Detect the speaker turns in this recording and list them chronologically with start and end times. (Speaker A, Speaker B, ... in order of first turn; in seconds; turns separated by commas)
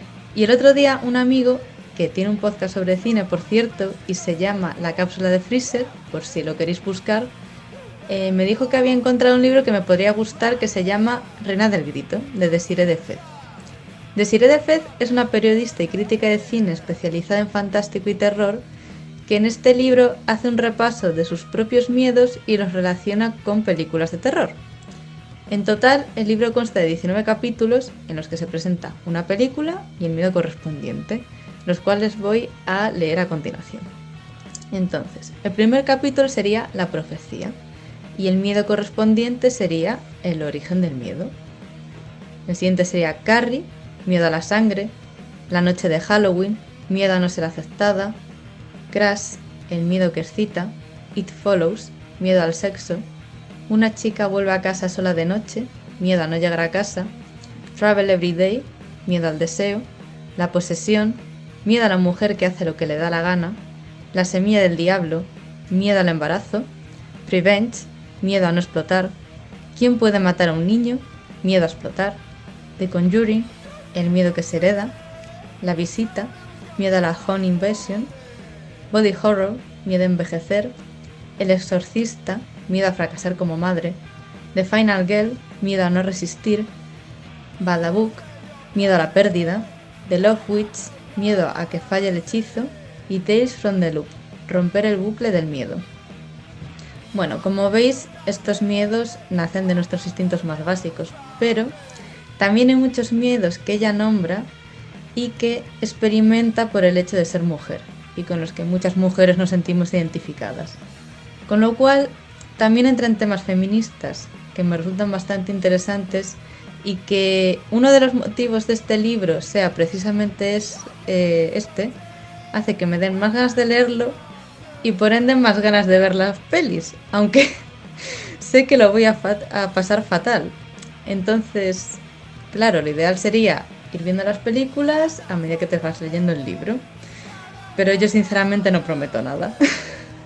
Speaker A: 0.3-7.3, Speaker A: 8.1-13.2, Speaker A: 14.2-18.7, Speaker A: 19.3-24.6, Speaker A: 25.5-33.9, Speaker A: 34.7-37.6, Speaker A: 38.2-41.4, Speaker A: 42.5-45.0, Speaker A: 45.5-48.2, Speaker A: 48.9-53.1, Speaker A: 53.7-57.1, Speaker A: 57.8-63.6, Speaker A: 64.1-66.7, Speaker A: 67.2-69.2, Speaker A: 69.8-72.2, Speaker A: 72.8-75.0, Speaker A: 75.6-78.1, Speaker A: 78.9-80.8, Speaker A: 81.4-84.0, Speaker A: 84.5-86.7, Speaker A: 87.6-95.9, Speaker A: 97.1-101.8, Speaker A: 102.4-104.5, Speaker A: 105.2-110.8, Speaker A: 111.5-122.0, Speaker A: 122.5-124.2, Speaker A: 124.8-127.6, Speaker A: 128.4-136.9, Speaker A: 137.8-139.6